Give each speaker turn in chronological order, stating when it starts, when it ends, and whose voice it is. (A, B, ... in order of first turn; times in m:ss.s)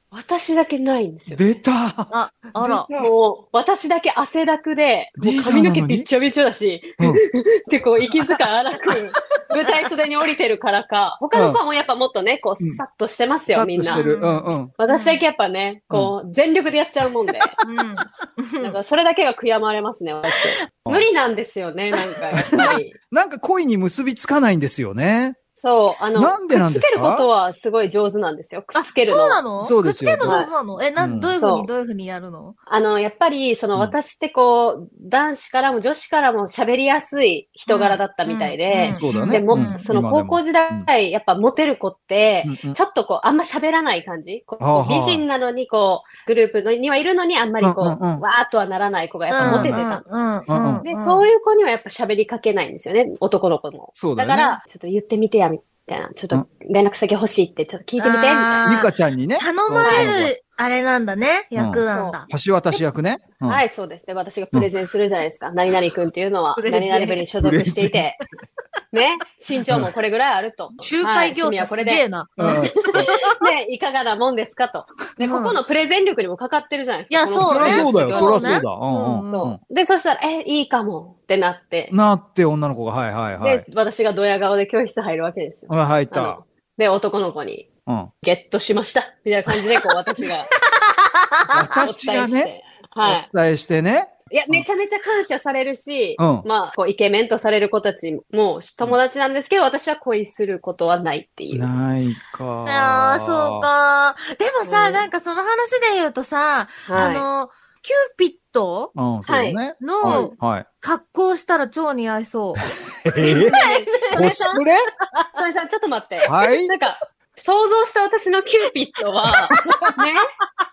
0:00.1-0:01.6 A
0:01.3-0:03.1 B
0:02.1-0:02.9 C
0:03.0-0:14.1 A
0:05.2-0:06.1 B
0:08.0-0:08.4 B
0:11.3-0:11.6 B
0:13.5-0:14.7 B
0:13.9-0:15.2 C
0:14.8-0:17.5 A
0:17.6-0:18.8 C
0:18.6-0:23.0 A
0:22.3-0:25.4 B
0:25.6-0:29.4 A
0:26.2-0:27.3 B
0:28.7-0:32.6 C
0:29.6-0:30.4 B
0:30.2-0:30.5 A
0:31.0-0:31.3 B
0:31.4-0:31.7 A
0:32.7-0:50.0 A
0:37.7-0:39.9 C
0:38.9-0:40.9 B
0:42.4-0:42.8 B
0:44.6-0:45.2 B
0:47.6-0:48.2 B
0:49.3-0:51.3 C
0:49.4-0:49.8 B
0:50.5-0:50.8 B
0:50.8-0:58.7 A
0:54.0-0:54.6 B
0:58.0-1:02.8 C
0:58.6-1:00.3 B
0:59.8-1:00.1 A
1:01.6-1:03.6 B
1:01.9-1:02.2 A
1:03.4-1:08.2 A
1:06.6-1:07.2 C
1:07.4-1:08.0 B
1:08.9-1:18.6 A
1:10.8-1:13.5 C
1:12.4-1:12.7 B
1:15.2-1:15.6 C
1:17.1-1:19.5 C
1:17.4-1:19.6 B
1:19.3-1:21.9 A
1:21.9-1:23.6 B
1:23.4-1:27.7 A
1:25.7-1:26.4 B
1:28.2-1:30.5 A
1:30.8-1:31.8 C
1:31.5-1:32.5 B
1:31.8-1:33.3 A
1:33.0-1:34.6 B
1:34.3-1:41.7 A
1:36.2-1:36.5 B
1:41.5-1:43.7 B
1:42.7-1:48.9 C
1:44.6-1:45.0 A
1:46.9-1:47.3 A
1:49.0-1:50.7 B
1:49.3-1:50.3 A
1:49.8-1:54.2 C
1:52.6-1:54.8 B
1:53.3-1:54.7 A
1:55.4-2:00.3 A
1:56.3-1:56.7 B